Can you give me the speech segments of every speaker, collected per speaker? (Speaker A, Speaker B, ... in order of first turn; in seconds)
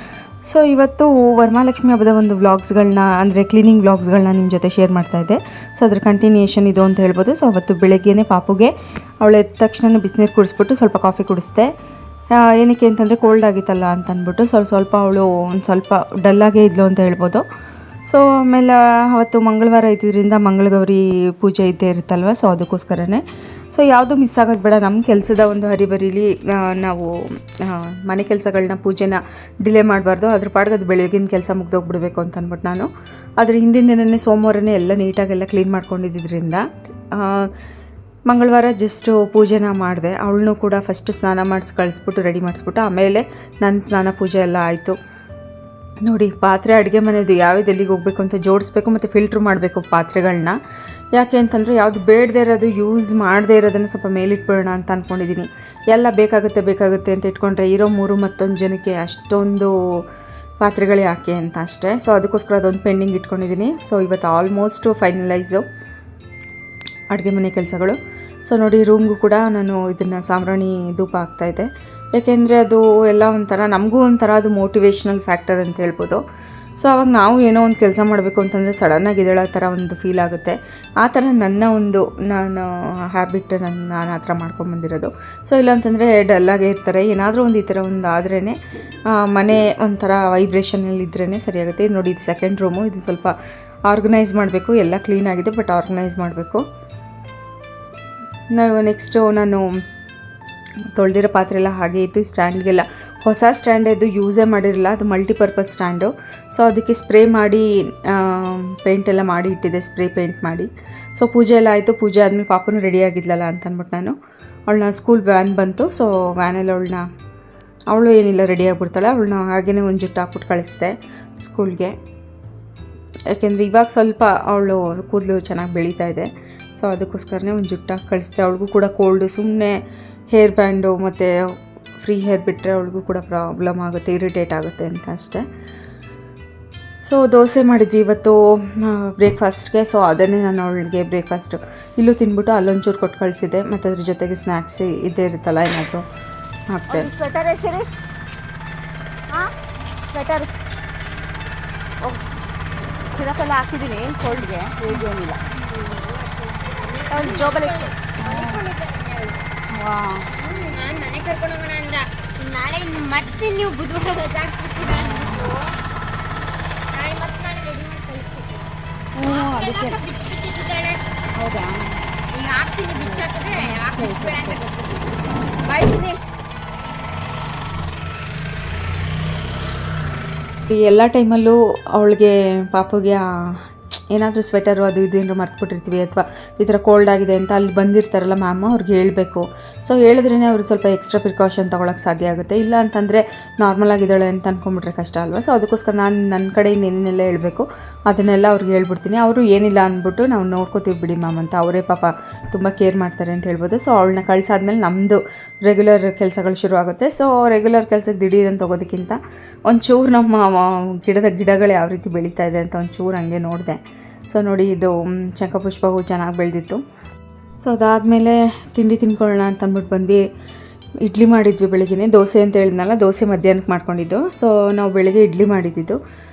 Speaker A: 0.4-11.7, 12.3-17.4, 18.1-37.5, 38.3-45.0, 46.0-50.6, 51.1-60.0, 60.6-65.6, 67.1-76.2, 76.8-88.6, 89.1-93.3, 93.9-96.6, 98.5-99.7, 100.9-114.2, 114.7-117.0, 117.9-121.9, 123.3-129.8, 130.3-131.3, 132.0-135.4, 137.0-146.0, 146.7-147.1, 180.6-216.8, 217.6-220.2, 221.0-226.0
Speaker B: 146.9-147.9, 150.1-150.5, 153.0-155.4, 157.1-158.7, 159.7-160.3, 164.9-165.5, 169.2-170.0, 171.4-172.0, 173.0-174.6, 175.7-176.2
Speaker C: 155.5-159.5, 160.3-165.7, 166.9-171.0, 172.3-175.0